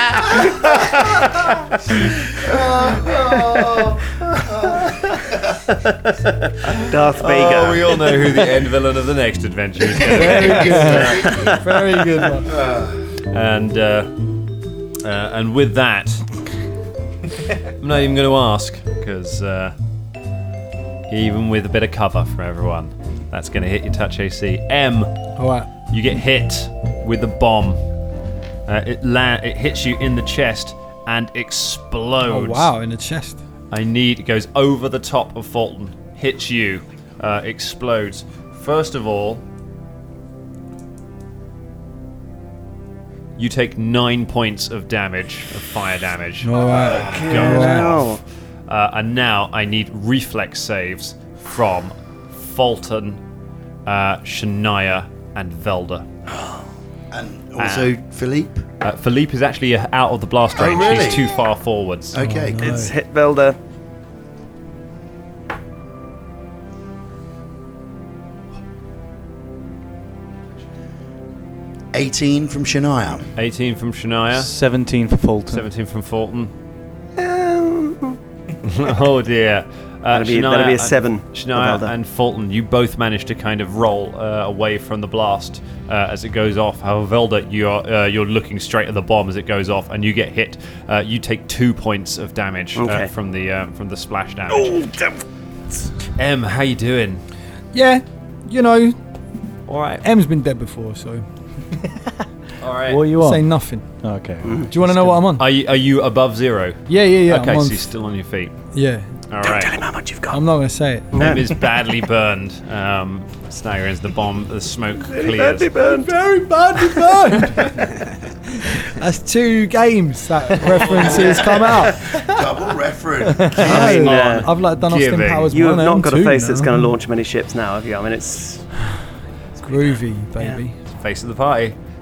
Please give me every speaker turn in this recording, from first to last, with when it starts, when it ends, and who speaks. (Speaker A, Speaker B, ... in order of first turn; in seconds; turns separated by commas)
Speaker A: 2.4-4.9, Speaker B: 5.7-8.6, Speaker C: 7.2-11.4, Speaker A: 10.0-11.5, Speaker D: 10.1-12.5, Speaker B: 11.3-11.6, Speaker A: 12.5-13.0, Speaker C: 13.3-14.1, Speaker C: 15.0-16.3, Speaker C: 17.8-19.7, Speaker C: 21.1-25.1, Speaker D: 25.4-25.7, Speaker C: 25.9-27.8, Speaker C: 28.7-32.7, Speaker D: 32.2-33.4, Speaker C: 33.7-39.4, Speaker C: 43.4-48.1, Speaker D: 46.4-47.9, Speaker A: 46.8-47.5, Speaker B: 47.1-48.2, Speaker C: 48.7-53.2, Speaker C: 53.9-56.0, Speaker A: 56.4-58.6, Speaker C: 57.6-57.9, Speaker C: 58.8-62.2, Speaker A: 60.5-61.4, Speaker A: 62.1-62.9, Speaker D: 62.2-62.9, Speaker B: 62.6-63.6, Speaker A: 71.9-73.3, Speaker C: 73.4-74.5, Speaker E: 74.3-75.7, Speaker C: 75.5-76.5, Speaker B: 77.2-78.2, Speaker C: 78.6-94.9, Speaker B: 80.1-81.9, Speaker B: 92.8-93.1, Speaker B: 94.5-95.2, Speaker C: 96.2-97.2, Speaker D: 97.7-99.0, Speaker C: 99.7-100.0, Speaker D: 100.0-101.2, Speaker C: 102.6-103.2, Speaker E: 102.9-103.5, Speaker D: 103.2-103.8, Speaker E: 104.0-105.2, Speaker B: 104.4-104.7, Speaker D: 104.7-105.5, Speaker C: 105.4-108.5, Speaker D: 106.9-107.9, Speaker D: 108.7-109.1, Speaker C: 109.3-109.8, Speaker B: 109.4-110.4, Speaker D: 110.3-111.3, Speaker B: 111.1-111.5, Speaker C: 111.1-115.7, Speaker B: 115.1-116.1, Speaker D: 115.8-117.9, Speaker D: 118.7-122.1, Speaker B: 120.9-121.3, Speaker A: 122.1-124.0, Speaker D: 123.5-127.0, Speaker B: 123.6-124.5, Speaker C: 123.6-125.5, Speaker B: 125.5-128.7, Speaker D: 129.6-130.8, Speaker C: 130.9-131.8